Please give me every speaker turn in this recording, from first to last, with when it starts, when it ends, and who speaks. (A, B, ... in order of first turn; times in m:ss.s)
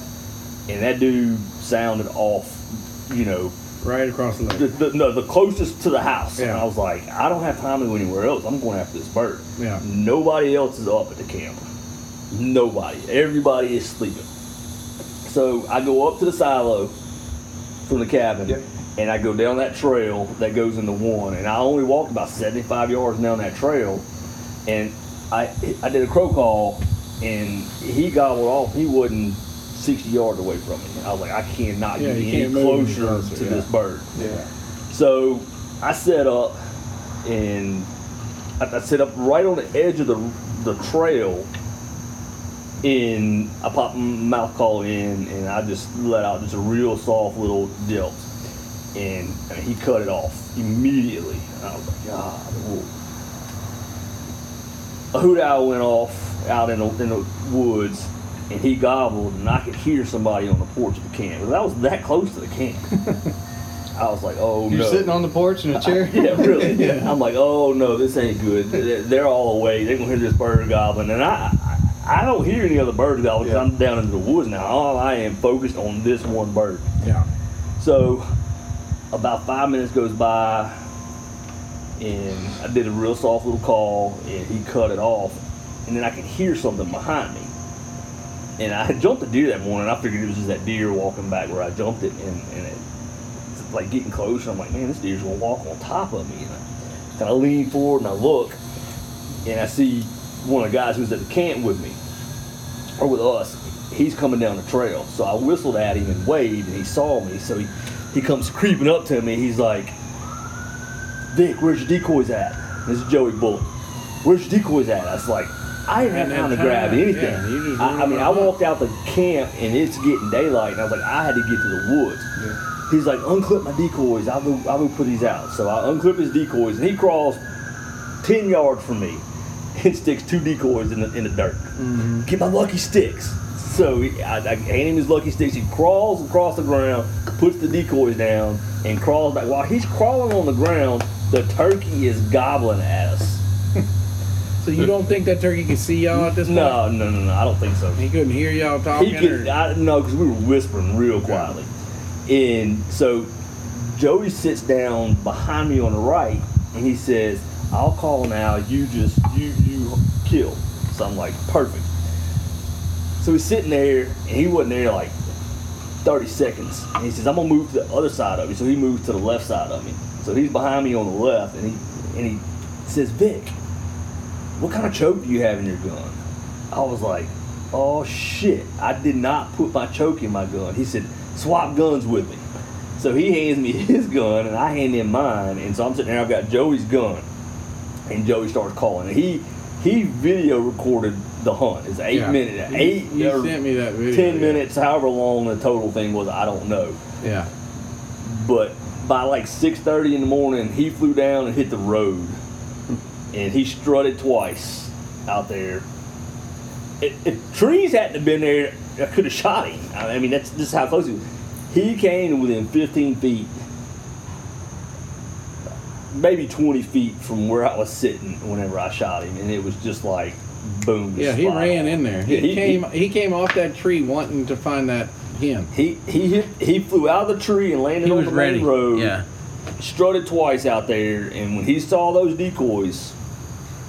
0:00.7-0:03.5 A
0:03.8-0:04.7 B
0:04.5-0:11.6 A
0:06.4-0:06.6 B
0:09.6-0:09.8 B
0:12.3-0:14.2 A
0:15.2-0:16.9 A
0:17.8-0:24.0 A
0:24.6-0:34.1 A
0:32.0-0:33.6 B
0:34.2-0:34.4 C
0:34.9-0:36.6 A
0:37.2-0:37.9 A
0:38.6-0:41.5 A
0:42.8-0:48.3 A
0:48.9-0:52.9 A
0:55.1-1:02.9 A
1:03.0-1:03.3 C
1:04.0-1:05.2 A
1:04.7-1:07.1 C
1:05.7-1:16.8 A
1:06.7-1:07.0 B
1:17.0-1:17.2 B
1:17.8-1:18.2 A
1:19.1-1:20.7 A
1:22.0-1:27.5 A
1:28.6-1:32.8 A
1:33.5-1:36.6 A
1:37.2-1:38.6 A
1:39.4-1:42.0 A
1:43.0-1:49.9 A
1:51.3-1:53.7 A
1:54.2-2:02.3 A
1:56.0-1:58.6 B
2:02.9-2:07.4 A
2:08.2-2:09.2 A
2:09.7-2:23.4 A
2:11.8-2:12.2 B
2:24.6-2:26.8 B
2:26.1-2:28.0 A
2:28.0-2:29.5 B
2:28.9-2:31.7 A
2:32.3-2:41.8 A
2:43.2-2:45.1 A
2:46.0-2:53.5 A
2:54.6-2:56.2 A
2:56.7-3:02.4 A
3:03.0-3:07.2 A
3:08.1-3:17.0 A
3:12.1-3:14.6 B
3:17.2-3:17.5 B
3:18.2-3:22.4 A
3:23.3-3:25.8 A
3:27.0-3:33.5 A
3:36.1-3:42.8 A
3:41.1-3:45.7 B
3:45.7-3:49.1 A
3:48.0-3:49.2 B
3:49.8-3:53.1 A